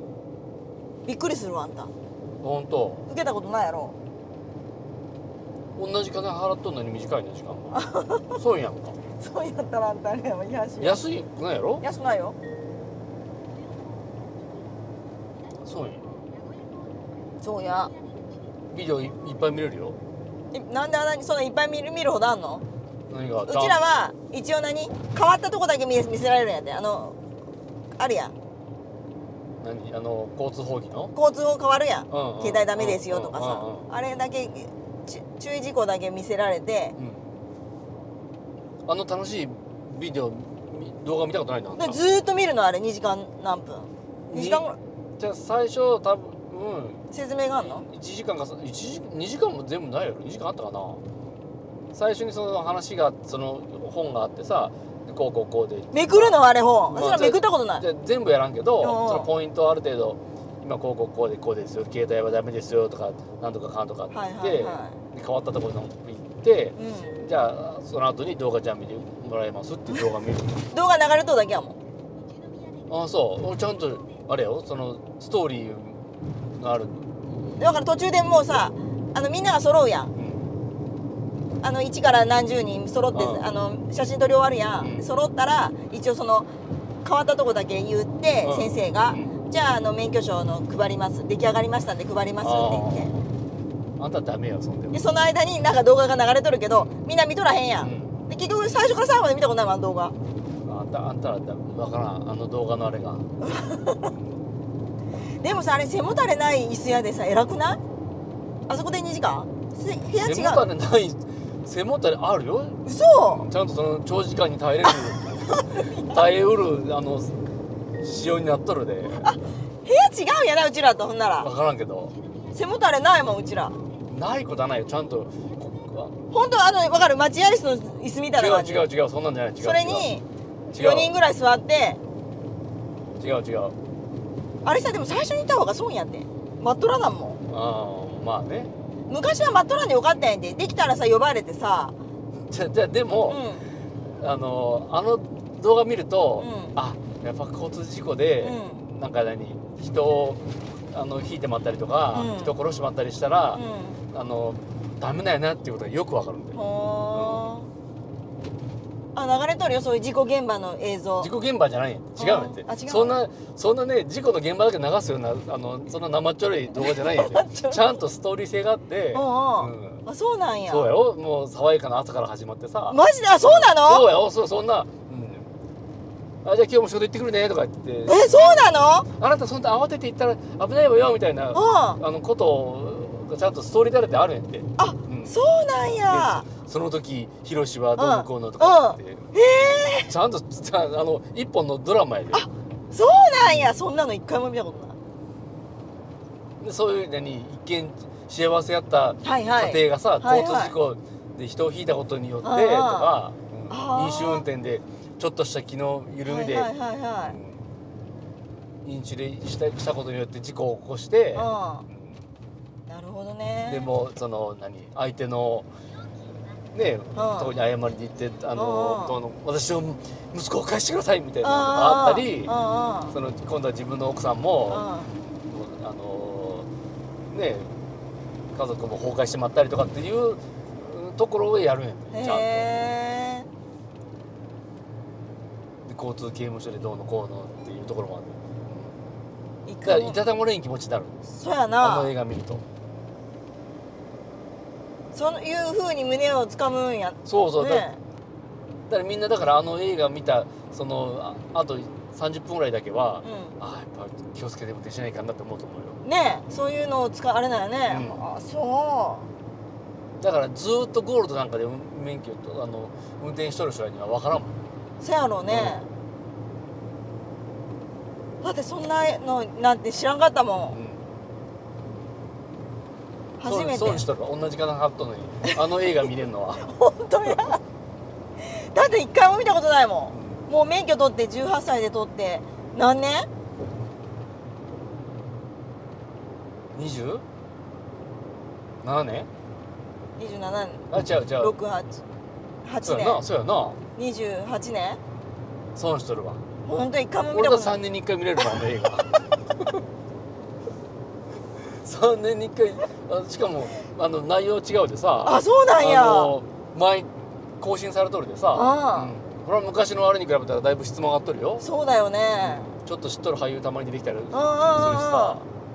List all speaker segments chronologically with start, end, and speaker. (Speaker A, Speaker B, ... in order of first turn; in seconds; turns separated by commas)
Speaker A: 1.0-1.9, Speaker B: 2.4-3.0, Speaker A: 3.1-4.0, Speaker B: 5.8-7.8, Speaker A: 7.7-8.4, Speaker B: 8.3-9.0, Speaker A: 9.2-11.0, Speaker B: 10.8-11.8, Speaker A: 11.8-12.4, Speaker B: 15.6-16.1, Speaker A: 17.4-17.9, Speaker B: 18.7-20.0, Speaker A: 20.5-22.6, Speaker B: 23.1-23.8, Speaker A: 23.5-27.2, Speaker A: 28.0-28.3, Speaker B: 29.6-31.1, Speaker A: 31.1-37.0, Speaker B: 32.1-33.9, Speaker B: 37.0-37.2, Speaker B: 38.9-42.0, Speaker A: 41.8-44.8, Speaker B: 44.3-47.0, Speaker A: 47.1-47.9, Speaker B: 47.6-51.0, Speaker B: 51.9-56.4, Speaker A: 55.9-57.8, Speaker B: 56.9-70.6, Speaker A: 58.8-59.3, Speaker A: 64.1-65.0, Speaker A: 66.8-67.2, Speaker A: 70.7-71.8, Speaker B: 72.9-76.0, Speaker B: 76.6-77.1, Speaker A: 77.6-80.1, Speaker B: 80.2-80.5, Speaker A: 81.6-86.5, Speaker B: 83.1-83.5, Speaker B: 84.8-85.1, Speaker A: 87.0-93.1, Speaker B: 88.4-89.3, Speaker B: 92.4-93.2, Speaker B: 94.0-95.0, Speaker A: 94.9-100.1, Speaker B: 97.8-98.2, Speaker B: 100.6-103.3, Speaker A: 103.4-104.1, Speaker A: 105.4-107.8, Speaker A: 108.7-110.6, Speaker B: 110.2-117.4, Speaker A: 112.8-113.5, Speaker A: 115.5-116.0, Speaker B: 118.0-119.3, Speaker A: 119.2-121.5, Speaker B: 121.4-122.2, Speaker A: 122.5-123.8, Speaker B: 124.1-126.1, Speaker A: 126.3-128.9, Speaker B: 128.3-130.1, Speaker A: 129.6-132.0, Speaker B: 130.7-131.2, Speaker B: 133.2-133.8, Speaker A: 134.7-137.4, Speaker B: 137.5-138.7, Speaker A: 139.1-141.9, Speaker B: 142.3-143.5, Speaker A: 143.3-143.7, Speaker B: 144.1-156.6, Speaker A: 146.4-146.8, Speaker A: 148.4-148.9, Speaker A: 152.1-152.6, Speaker A: 153.5-154.0, Speaker A: 156.6-157.7, Speaker B: 157.1-157.5, Speaker A: 159.2-161.3, Speaker B: 161.2-170.1, Speaker A: 162.2-163.2, Speaker A: 166.8-167.8, Speaker A: 169.1-170.9, Speaker B: 170.7-175.5, Speaker A: 172.9-174.1, Speaker B: 176.4-185.3, Speaker A: 178.1-179.1, Speaker A: 181.5-182.0, Speaker A: 184.8-186.5, Speaker B: 186.1-189.3, Speaker A: 188.0-190.1, Speaker B: 190.1-192.5, Speaker A: 192.3-195.0, Speaker B: 193.4-193.7, Speaker B: 196.6-206.7, Speaker A: 199.2-200.8, Speaker A: 202.4-203.2, Speaker A: 203.7-204.4, Speaker A: 206.3-207.4, Speaker B: 207.2-207.6, Speaker B: 208.8-212.2, Speaker A: 211.3-211.9, Speaker A: 212.9-213.9, Speaker B: 213.7-215.7, Speaker B: 216.7-222.6, Speaker A: 217.2-217.5, Speaker A: 218.6-219.2, Speaker A: 221.4-223.2, Speaker B: 223.1-226.7, Speaker A: 224.7-225.2, Speaker B: 227.3-227.7, Speaker B: 228.5-232.7, Speaker A: 232.1-233.5, Speaker B: 235.9-238.9, Speaker A: 239.7-240.2, Speaker B: 239.8-241.2, Speaker A: 241.3-242.1, Speaker B: 241.8-242.6, Speaker A: 245.1-248.0, Speaker B: 247.2-247.9, Speaker B: 248.9-256.0, Speaker A: 253.2-253.5, Speaker A: 256.0-259.3, Speaker B: 257.9-258.2, Speaker B: 260.2-264.6, Speaker A: 265.0-265.9, Speaker B: 265.5-265.8, Speaker A: 268.4-270.8, Speaker B: 270.7-271.0, Speaker A: 273.4-274.1, Speaker B: 273.4-276.6, Speaker A: 276.6-277.6, Speaker A: 278.4-283.3, Speaker B: 280.1-280.4, Speaker B: 286.8-287.2, Speaker B: 288.8-289.3, Speaker A: 290.2-292.0, Speaker B: 290.9-291.6, Speaker A: 292.6-293.2, Speaker B: 292.8-293.8, Speaker A: 293.9-295.0, Speaker B: 295.8-296.4, Speaker A: 296.6-297.8, Speaker B: 297.2-299.7, Speaker B: 301.6-311.6, Speaker A: 305.2-306.3, Speaker A: 308.5-309.1, Speaker A: 311.6-312.7, Speaker B: 312.4-315.5, Speaker A: 314.3-315.4